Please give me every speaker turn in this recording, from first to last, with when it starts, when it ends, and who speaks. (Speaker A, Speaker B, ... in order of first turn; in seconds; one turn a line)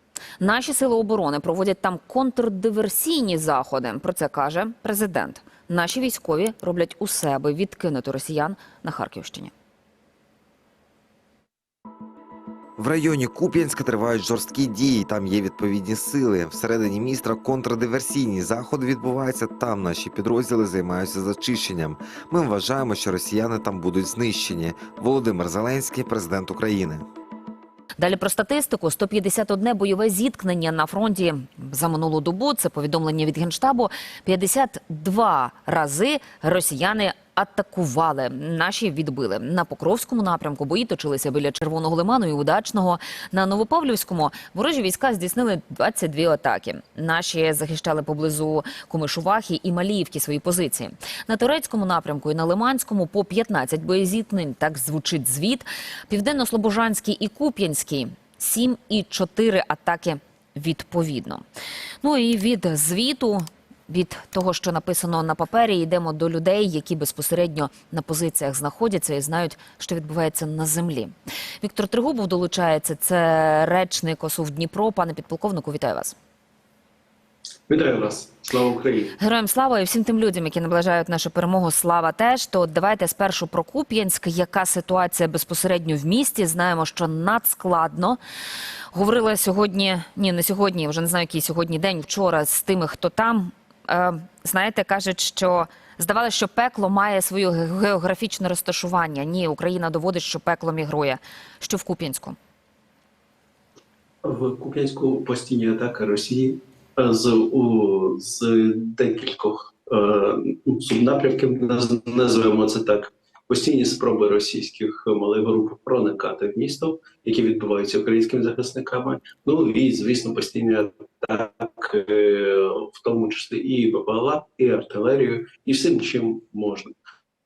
Speaker A: 0.4-9.5
Speaker B: 12.8-27.1
Speaker A: 28.0-61.4
Speaker A: 62.0-76.2
Speaker C: 77.7-79.2
Speaker A: 79.2-88.2
Speaker A: 88.9-102.4
Speaker C: 104.2-126.9